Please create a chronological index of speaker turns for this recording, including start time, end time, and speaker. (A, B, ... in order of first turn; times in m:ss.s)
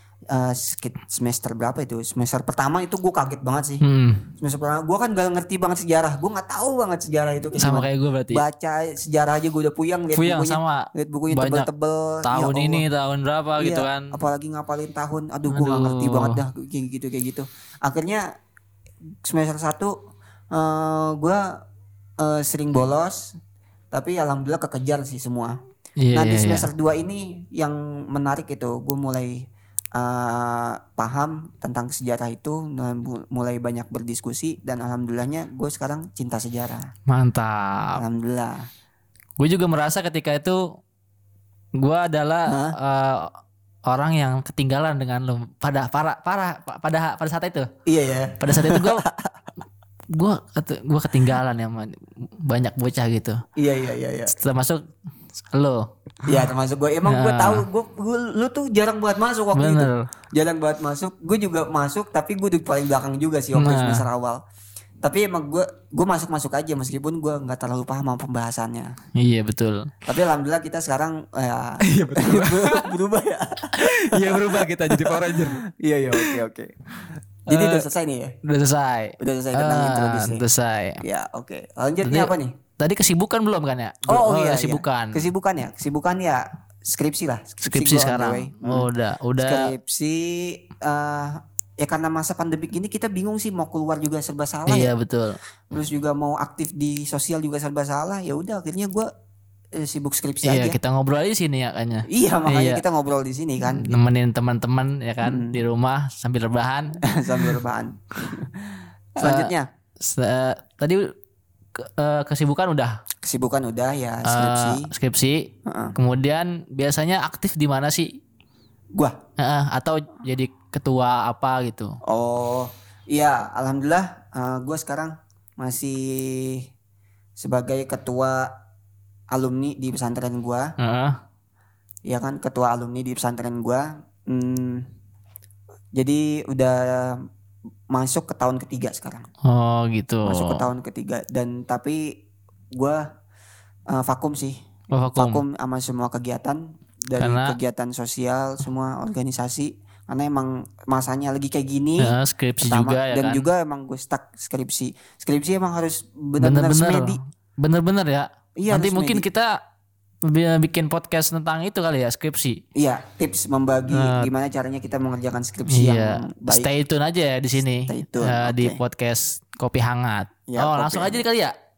0:00.3-0:03.8 A
0:03.8-0:04.2 B
0:04.4-0:12.8 A
0:07.6-0:08.4 B
0:10.2-0:11.7 B
0:12.2-0:14.2 B
0:13.6-0:18.2 A
0:15.5-0:16.4 B
0:19.2-0:19.9 A
0:20.5-0:21.4 A
0:22.2-0:23.3 A
0:23.9-0:25.6 A
0:26.0-0:26.7 B
0:26.1-0:36.9 A
0:37.1-0:38.0 B
0:38.0-0:38.6 A
0:39.4-0:40.7 B
0:41.8-0:43.3 B
0:42.5-0:42.8 A
0:43.9-0:47.7 B
0:47.9-0:49.3 A
0:48.4-0:49.0 B
0:50.1-0:53.4 B
0:53.6-0:54.3 A
0:54.3-0:54.8 B
0:55.4-0:56.4 B
0:56.2-1:04.4 A
0:57.1-0:57.6 B
0:59.5-1:00.0 B
1:03.6-1:04.0 B
1:05.0-1:08.9 A
1:09.2-1:09.9 B
1:10.1-1:16.7 A
1:11.8-1:12.9 B
1:13.7-1:15.6 B
1:17.5-1:18.4 A
1:17.5-1:17.9 B
1:18.4-1:21.0 B
1:19.2-1:20.4 A
1:21.0-1:22.6 A
1:22.0-1:25.2 B
1:24.1-1:34.9 A
1:27.6-1:29.7 B
1:34.7-1:35.4 B
1:35.7-1:39.1 A
1:39.8-1:40.8 A
1:40.4-1:42.8 B
1:42.1-1:43.9 A
1:43.7-1:47.5 B
1:45.2-1:45.6 A
1:47.1-1:48.6 A
1:49.2-1:49.7 A
1:49.2-1:49.5 B
1:50.0-1:51.1 B
1:51.8-1:52.9 B
1:53.2-1:54.9 A
1:54.2-1:55.4 B
1:55.7-1:56.0 A
1:56.0-1:58.1 B
1:59.4-2:01.9 B
2:02.1-2:06.7 A
2:07.4-2:08.5 A
2:09.3-2:10.7 A
2:10.8-2:11.2 B
2:12.1-2:14.8 A
2:16.0-2:17.2 A
2:17.9-2:19.3 A
2:19.5-2:20.6 B
2:20.3-2:22.0 A
2:22.7-2:23.0 A
2:23.9-2:24.6 A
2:24.9-2:25.4 B
2:25.2-2:37.2 A
2:27.2-2:27.6 B
2:32.0-2:33.4 B
2:36.4-2:39.6 B
2:38.6-2:39.3 A
2:40.3-2:42.6 B
2:42.8-2:46.7 A
2:43.9-2:44.3 B
2:45.7-2:51.5 B
2:47.9-2:48.8 A
2:50.5-2:51.2 A